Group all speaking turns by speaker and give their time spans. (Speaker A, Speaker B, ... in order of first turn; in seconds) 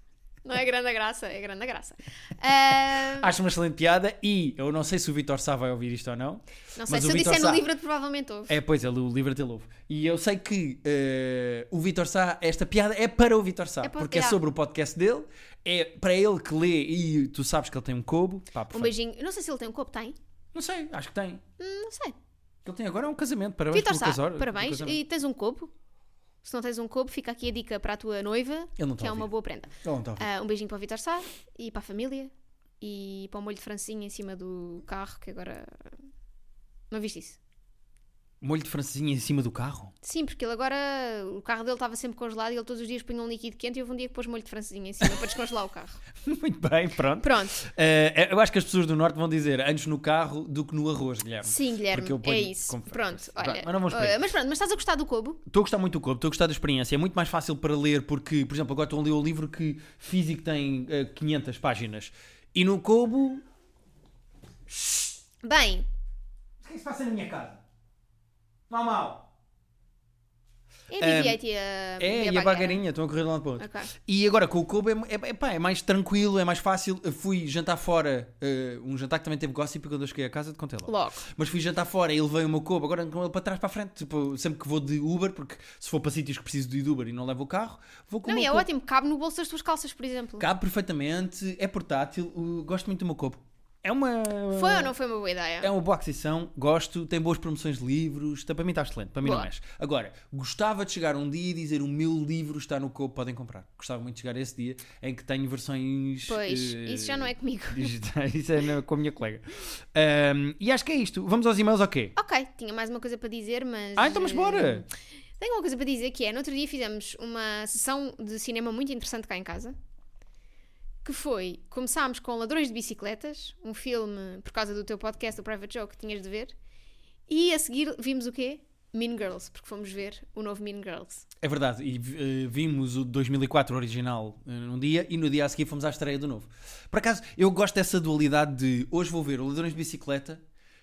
Speaker A: 0.5-3.3, 6.8-8.6, 13.8-14.4, 18.7-20.2, 21.6-22.1, 23.7-25.7, 26.4-35.9, 36.9-37.4, 40.0-46.0, 47.2-47.6, 51.4-55.4, 65.4-65.9, 70.9-72.8, 73.6-73.9, 80.9-81.3, 88.3-90.5, 94.5-95.7, 106.3-107.9, 112.2-119.8, 121.0-126.5, 127.3-131.2
Speaker B: 3.2-7.7, 8.5-18.9, 20.5-21.4, 22.6-25.0, 28.8-29.3, 29.8-30.3, 38.4-39.9, 46.2-54.2, 55.5-63.4, 64.7-65.2, 66.6-67.6, 68.7-69.3, 71.0-71.4, 72.0-88.7, 90.4-94.9, 95.6-112.1, 114.0-114.9, 131.4-140.4